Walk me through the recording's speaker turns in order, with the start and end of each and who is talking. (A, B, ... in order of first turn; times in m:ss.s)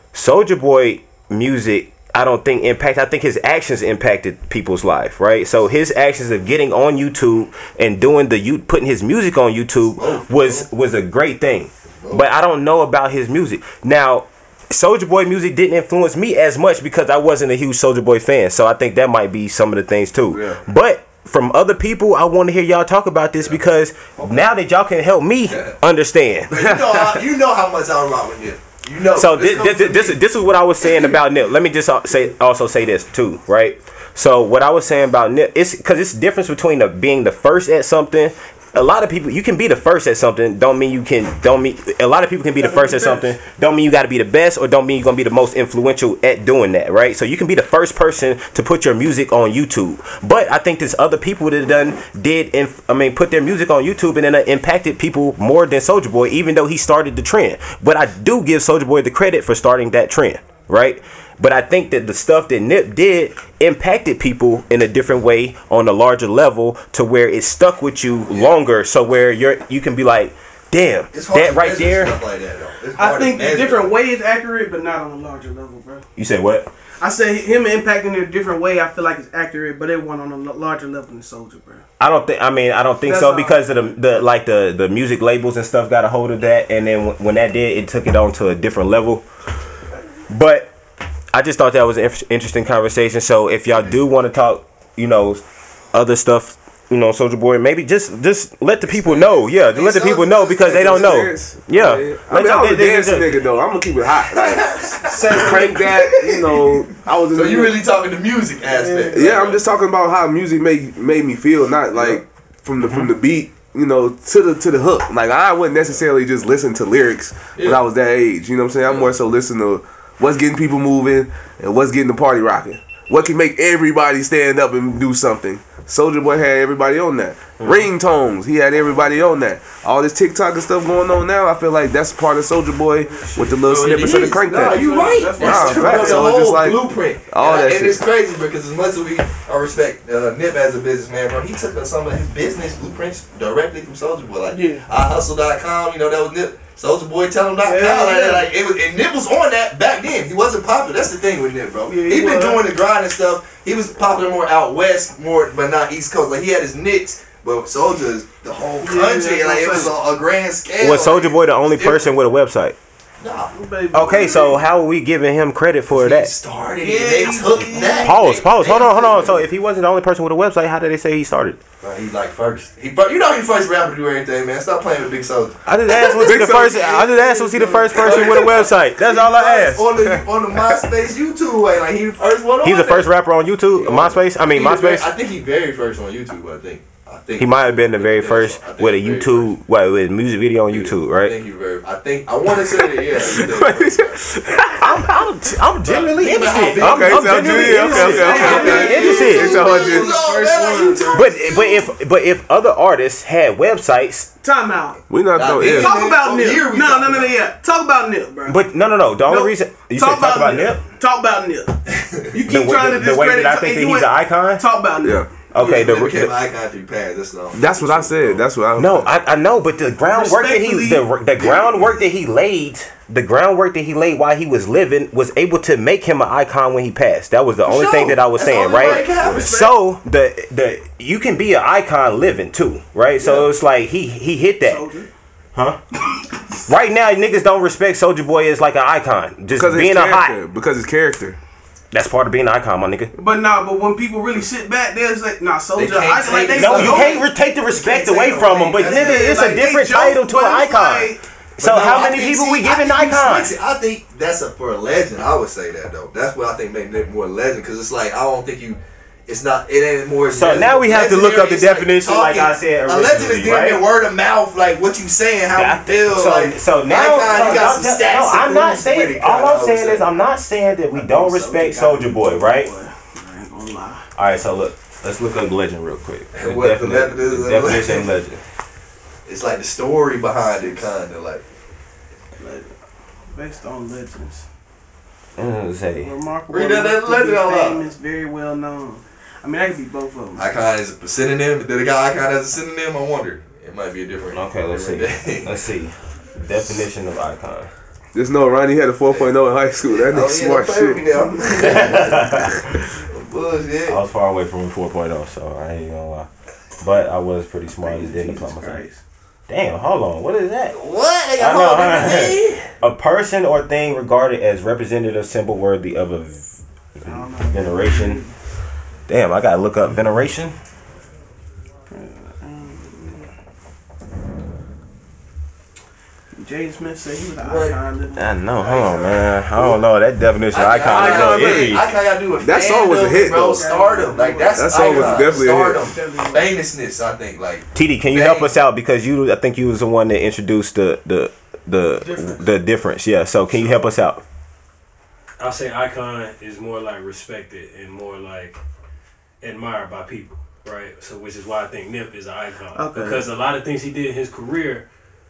0:00.1-0:27.2 A
0:10.0-0:10.7 B
0:12.0-0:12.2 B
0:20.3-0:20.6 B
0:24.2-0:24.5 B
0:25.5-0:25.7 B
0:26.5-0:30.2 B
0:29.1-1:12.1 A
0:30.8-0:31.2 B
0:42.6-0:43.3 C
1:08.3-1:08.5 B
1:11.1-1:13.9 B
1:13.0-1:16.0 C
1:16.2-1:16.7 A
1:17.0-1:21.8 C
1:22.0-1:29.2 A
1:23.0-1:23.6 C
1:30.3-1:30.7 A
1:31.3-1:43.4 A
1:39.1-1:41.1 B
1:40.6-1:47.8 D
1:44.3-1:45.8 B
1:45.3-1:46.6 C
1:45.3-1:45.7 A
1:47.3-1:49.6 B
1:48.6-1:49.4 C
1:49.1-2:14.8 D
1:51.9-1:52.2 B
1:52.8-1:53.1 A
1:57.6-1:57.8 B
2:07.6-2:07.9 A
2:13.6-2:42.1 B
2:14.1-2:16.4 C
2:15.4-2:18.0 D
2:24.5-2:24.8 C
2:27.6-2:28.5 C
2:31.9-2:32.6 C
2:38.8-2:39.9 C
2:40.8-2:42.8 A
2:43.2-2:43.5 B
2:43.5-2:44.6 C
2:43.9-2:46.3 A
2:45.9-2:49.4 B
2:46.8-2:48.4 C
2:47.9-2:51.6 A
2:51.8-3:03.1 B
2:55.6-3:00.8 A
2:56.2-2:56.7 D
2:58.1-2:58.4 D
3:02.6-3:05.1 A
3:03.8-3:09.5 B
3:07.4-3:11.3 A
3:10.7-3:14.2 B
3:12.9-3:15.1 D
3:14.8-3:19.6 A
3:15.8-3:21.8 B
3:16.8-3:20.1 D
3:17.7-3:21.6 C
3:21.1-3:24.3 A
3:24.4-3:25.0 C
3:25.1-3:25.9 D
3:25.3-3:27.3 B
3:25.6-3:28.6 C
3:28.5-3:30.8 A
3:29.2-3:35.3 C
3:31.9-3:32.2 B
3:32.5-3:34.6 A
3:35.5-3:36.3 A
3:35.5-3:38.4 B
3:37.5-3:39.1 D
3:38.8-3:54.8 A
3:40.0-3:41.0 C
3:41.4-3:41.9 B
3:47.6-3:49.7 B
3:48.7-3:49.7 C
3:53.2-3:53.5 B
3:54.6-3:55.1 C
3:56.7-4:00.4 A
3:59.5-4:01.4 D
4:01.9-4:03.1 A
4:03.1-4:07.2 C
4:05.8-4:09.4 B
4:06.6-4:13.5 A
4:08.8-4:11.2 C
4:11.6-4:30.1 B
4:20.3-4:23.8 A
4:25.5-4:32.7 A
4:30.9-4:34.1 C
4:34.2-4:38.4 A
4:36.3-4:38.1 B
4:39.2-4:41.4 B
4:42.4-4:42.7 C
4:43.3-4:44.4 C
4:45.4-4:46.1 A
4:46.0-4:50.5 C
4:46.5-4:47.8 B
4:50.4-4:55.5 B
4:54.3-4:57.7 A
4:58.1-5:01.2 D
5:00.1-5:04.0 B
5:01.6-5:02.6 A
5:03.9-5:06.3 A
5:06.8-5:08.8 A
5:07.8-5:09.0 C
5:09.5-5:10.8 A
5:10.7-5:12.7 B
5:11.4-5:18.2 A
5:17.0-5:18.3 C
5:19.1-5:20.5 A
5:21.9-5:23.3 C
5:26.3-5:28.3 C
5:27.4-5:27.8 B
5:28.1-5:31.9 A
5:28.6-5:29.2 B
5:30.5-5:38.5 B
5:30.9-5:31.3 D
5:31.0-5:31.7 C
5:32.4-5:33.8 D
5:33.1-5:36.5 C
5:34.5-5:35.9 D
5:37.7-5:44.2 A
5:42.0-5:42.5 C
5:43.5-5:43.8 E
5:45.4-5:48.6 E
5:49.4-5:54.9 E
5:52.7-5:53.3 C